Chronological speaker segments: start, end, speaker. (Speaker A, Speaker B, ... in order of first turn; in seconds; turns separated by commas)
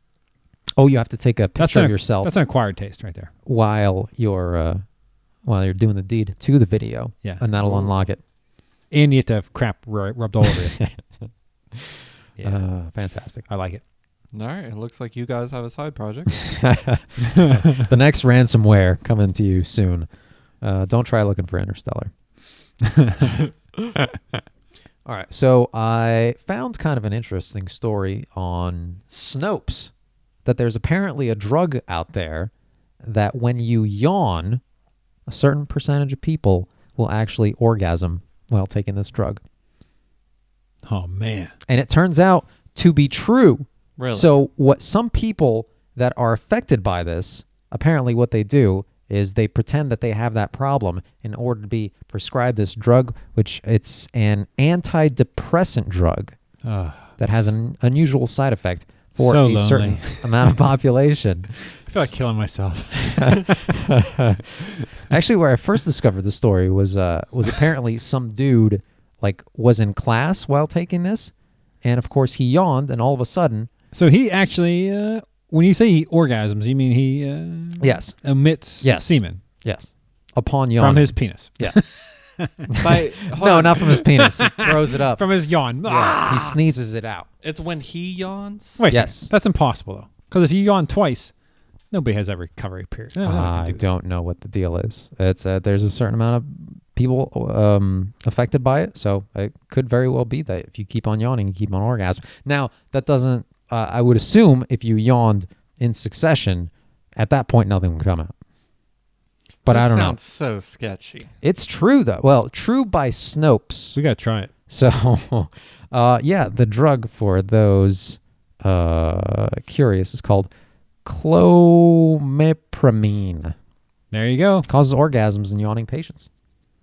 Speaker A: 0.8-2.3, Speaker B: 1.6-3.3, Speaker A: 3.5-4.8, Speaker A: 5.4-8.2, Speaker C: 7.6-8.0, Speaker B: 8.9-10.8, Speaker B: 12.3-13.8, Speaker A: 12.4-13.5, Speaker C: 14.3-16.3, Speaker A: 16.5-20.1, Speaker A: 20.6-22.1, Speaker B: 23.0-23.3, Speaker A: 25.1-29.9, Speaker A: 30.4-32.5, Speaker A: 33.0-34.6, Speaker A: 35.3-39.4, Speaker B: 40.9-41.5, Speaker A: 41.7-56.4, Speaker C: 44.0-44.3, Speaker B: 56.6-57.1, Speaker A: 57.2-62.1, Speaker B: 59.2-60.6, Speaker B: 61.7-63.7, Speaker A: 63.2-64.4, Speaker A: 65.0-71.3, Speaker A: 71.8-73.7, Speaker B: 73.9-79.4, Speaker A: 77.8-81.8, Speaker B: 80.8-82.9, Speaker A: 82.7-85.3, Speaker C: 82.8-83.8, Speaker B: 83.8-86.6, Speaker A: 85.8-87.3, Speaker C: 87.4-88.8, Speaker B: 88.8-91.3, Speaker A: 88.9-89.3, Speaker B: 91.9-93.8, Speaker A: 93.2-108.3, Speaker A: 109.6-110.2, Speaker C: 109.7-111.3, Speaker A: 111.4-114.0, Speaker B: 113.9-114.5, Speaker A: 114.7-120.5, Speaker A: 121.0-123.5, Speaker B: 124.1-124.7, Speaker A: 124.6-126.3